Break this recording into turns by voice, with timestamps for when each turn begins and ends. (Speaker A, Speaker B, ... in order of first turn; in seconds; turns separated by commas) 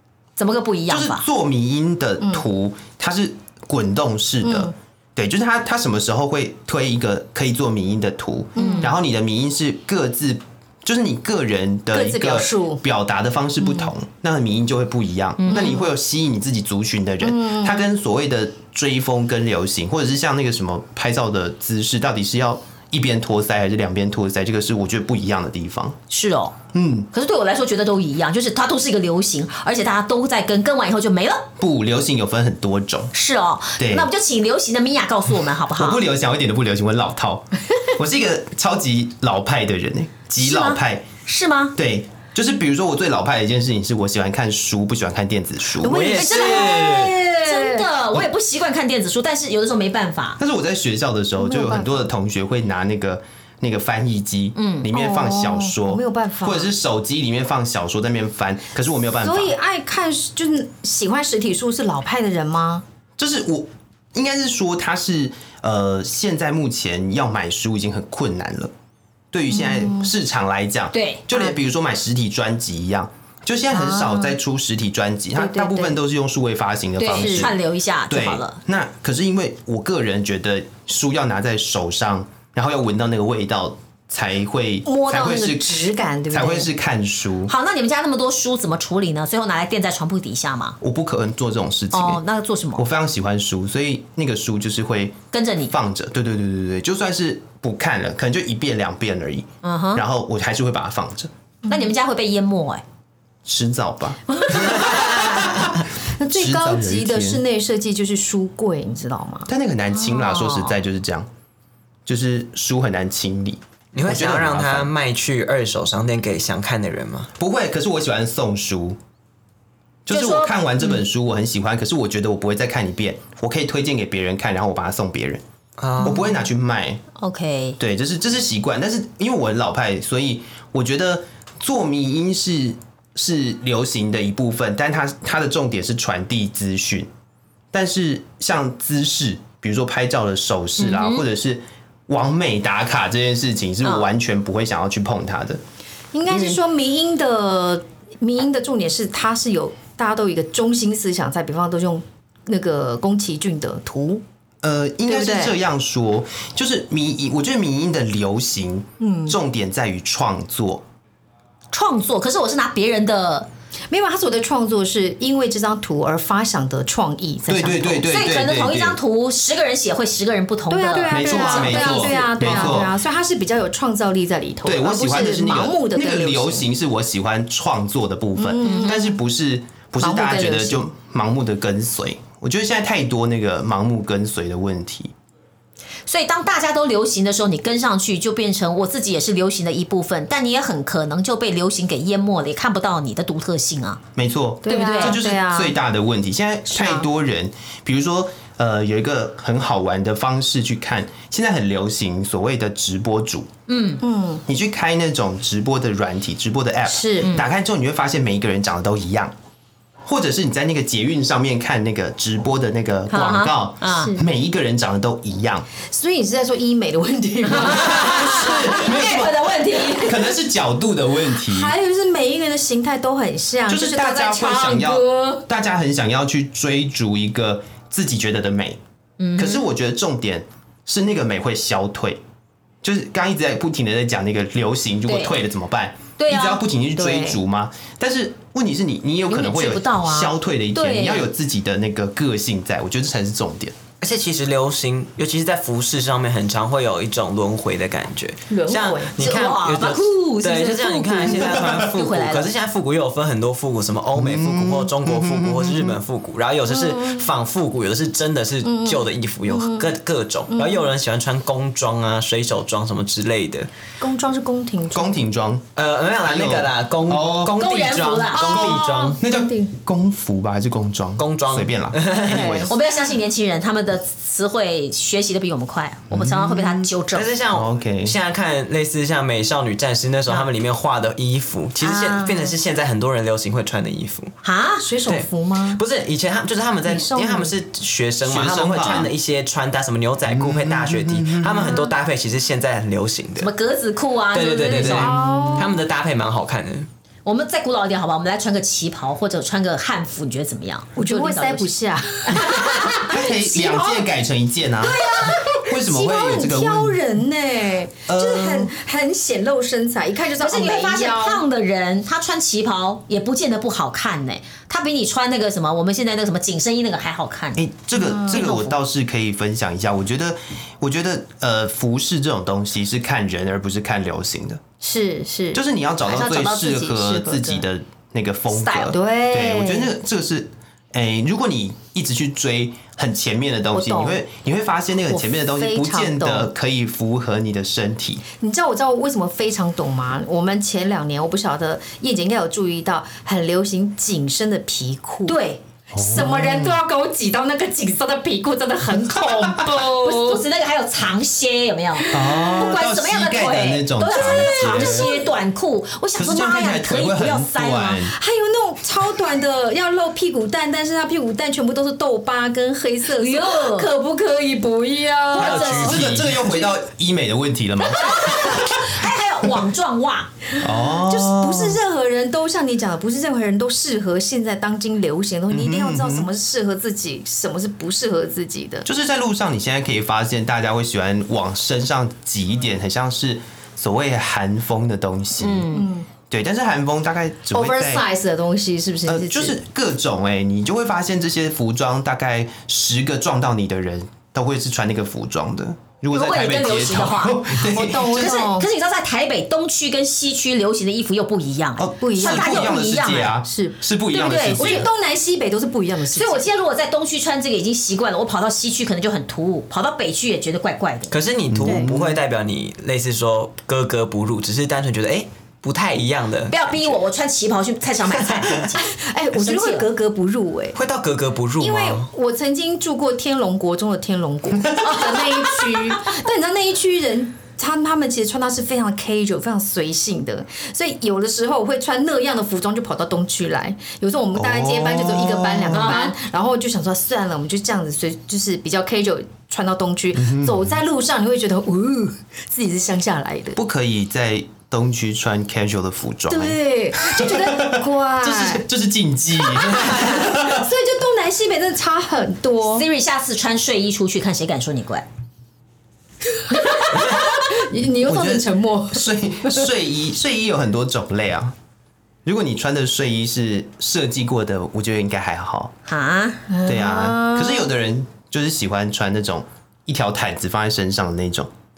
Speaker A: 0.4-1.2, Speaker B: 0.9-26.0, Speaker C: 4.4-4.7, Speaker A: 8.6-8.9, Speaker C: 8.6-8.9, Speaker C: 11.9-12.8, Speaker C: 13.6-13.9, Speaker A: 15.4-15.8, Speaker C: 15.5-15.9, Speaker C: 17.2-17.8, Speaker A: 26.1-26.6, Speaker B: 26.7-27.1, Speaker A: 27.1-31.5, Speaker B: 31.6-33.1, Speaker A: 33.1-36.0, Speaker B: 33.8-34.1, Speaker B: 35.8-41.1, Speaker A: 40.4-41.8, Speaker B: 41.8-46.1, Speaker C: 45.8-47.9, Speaker D: 45.8-47.2, Speaker A: 46.1-50.4, Speaker B: 50.4-59.5, Speaker C: 51.4-52.1, Speaker A: 54.6-54.9, Speaker C: 54.9-56.7, Speaker C: 59.2-62.8, Speaker B: 63.2-68.7, Speaker B: 69.3-87.5, Speaker C: 69.5-70.1, Speaker A: 70.9-71.3, Speaker C: 73.7-74.4, Speaker C: 75.3-76.0, Speaker A: 77.0-78.6, Speaker C: 77.1-77.5, Speaker C: 84.9-86.7, Speaker A: 87.5-90.8, Speaker B: 90.8-92.2, Speaker A: 91.9-92.8, Speaker B: 92.8-95.2, Speaker A: 95.3-95.7, Speaker B: 95.7-101.3, Speaker A: 99.6-100.0, Speaker A: 101.7-102.8, Speaker B: 103.5-105.7, Speaker C: 104.5-105.7, Speaker C: 106.2-109.5, Speaker B: 106.3-107.4, Speaker B: 109.5-111.3, Speaker A: 110.1-110.8, Speaker B: 112.1-114.9, Speaker D: 113.9-117.3, Speaker B: 117.4-119.0, Speaker B: 120.1-125.4, Speaker A: 120.1-120.6, Speaker D: 125.8-126.3, Speaker B: 126.0-127.0, Speaker A: 127.2-127.8, Speaker B: 127.8-137.1, Speaker B: 137.7-145.6, Speaker A: 140.8-141.2, Speaker C: 146.1-154.2, Speaker B: 146.3-146.6, Speaker B: 154.6-160.8, Speaker C: 155.1-155.5, Speaker C: 159.0-159.4, Speaker A: 161.7-163.5, Speaker C: 163.9-168.1, Speaker B: 167.5-169.0, Speaker A: 168.1-172.8, Speaker C: 170.7-176.7, Speaker B: 171.1-172.9, Speaker B: 174.6-185.1, Speaker C: 178.4-179.2, Speaker A: 178.6-178.9, Speaker C: 180.0-180.8, Speaker A: 186.1-194.0, Speaker B: 194.2-203.5, Speaker C: 194.7-195.8, Speaker A: 194.7-195.2, Speaker C: 196.7-197.1, Speaker A: 203.7-204.0, Speaker C: 204.0-204.4, Speaker B: 204.5-209.3, Speaker C: 206.9-207.4, Speaker A: 207.2-207.5, Speaker B: 210.0-215.7, Speaker A: 213.1-214.1, Speaker C: 214.0-214.2, Speaker C: 215.8-220.2, Speaker A: 217.5-220.2, Speaker B: 217.5-221.8, Speaker C: 221.3-225.4, Speaker B: 223.7-228.8, Speaker A: 229.2-229.7, Speaker B: 229.4-232.2, Speaker B: 232.8-243.8, Speaker A: 235.1-235.4, Speaker A: 236.2-236.6, Speaker C: 237.0-237.4, Speaker A: 239.3-241.3, Speaker D: 244.0-263.7, Speaker C: 248.5-249.4, Speaker A: 249.2-252.5, Speaker B: 254.2-256.0, Speaker C: 256.7-257.3, Speaker C: 258.6-259.9, Speaker C: 260.5-260.9, Speaker C: 264.0-265.1, Speaker B: 264.9-265.6, Speaker D: 265.8-269.2, Speaker B: 266.2-267.6, Speaker A: 267.6-269.2, Speaker C: 268.4-269.7, Speaker B: 268.5-272.7, Speaker D: 271.2-272.7, Speaker C: 272.3-273.0, Speaker A: 272.7-277.3, Speaker B: 276.1-276.9, Speaker D: 277.1-284.3, Speaker B: 277.5-278.2, Speaker A: 281.9-282.3, Speaker A: 284.4-284.9, Speaker C: 284.8-285.8, Speaker D: 285.1-293.5, Speaker C: 286.9-287.5, Speaker B: 288.2-289.1, Speaker B: 290.3-291.9, Speaker A: 293.4-295.1, Speaker D: 294.3-296.9, Speaker B: 294.7-295.6, Speaker C: 294.8-295.8, Speaker A: 297.2-301.7, Speaker C: 301.0-304.1, Speaker A: 302.3-302.9, Speaker B: 302.4-307.0, Speaker C: 304.8-311.4, Speaker B: 308.1-308.7, Speaker A: 310.4-317.6, Speaker B: 317.6-324.6, Speaker C: 317.9-318.7, Speaker A: 318.3-318.7, Speaker C: 324.8-327.6, Speaker B: 325.5-338.2, Speaker A: 328.5-328.9, Speaker C: 328.9-329.9, Speaker C: 333.7-334.2, Speaker C: 335.1-336.5, Speaker C: 338.4-345.4, Speaker A: 345.3-345.6, Speaker B: 345.9-346.8, Speaker C: 345.9-350.4, Speaker B: 349.4-349.7, Speaker A: 350.0-358.0, Speaker C: 352.1-352.6, Speaker B: 352.1-355.1, Speaker C: 354.1-355.3, Speaker B: 356.2-358.1, Speaker C: 358.1-366.1, Speaker A: 363.2-363.9, Speaker A: 365.3-366.1, Speaker D: 365.4-366.4, Speaker B: 365.7-369.0, Speaker A: 367.9-370.3, Speaker B: 370.6-371.8, Speaker C: 370.9-378.9, Speaker B: 375.5-376.3, Speaker B: 378.9-385.7, Speaker A: 385.4-385.9, Speaker C: 385.7-386.1, Speaker B: 386.3-388.1, Speaker C: 387.5-389.6, Speaker B: 389.1-398.4, Speaker A: 396.1-397.5, Speaker C: 397.6-398.7, Speaker A: 398.1-403.4, Speaker B: 401.8-404.9, Speaker C: 402.0-402.8, Speaker C: 403.4-403.8, Speaker A: 404.1-404.9, Speaker C: 404.4-406.5, Speaker A: 406.1-411.2, Speaker D: 411.1-416.8, Speaker B: 411.5-412.2, Speaker A: 416.5-419.9, Speaker D: 418.2-418.7, Speaker C: 418.9-420.8, Speaker D: 420.8-422.1, Speaker C: 421.6-443.6, Speaker A: 424.8-425.2, Speaker B: 434.4-436.0, Speaker A: 435.7-436.1, Speaker B: 440.2-440.8, Speaker B: 443.6-450.7, Speaker C: 446.3-448.6, Speaker C: 449.4-452.9, Speaker A: 452.7-455.0, Speaker C: 456.4-459.7, Speaker A: 456.8-457.2, Speaker B: 458.0-461.6, Speaker B: 462.2-465.7, Speaker A: 465.9-466.5, Speaker C: 466.5-467.7, Speaker B: 466.6-471.5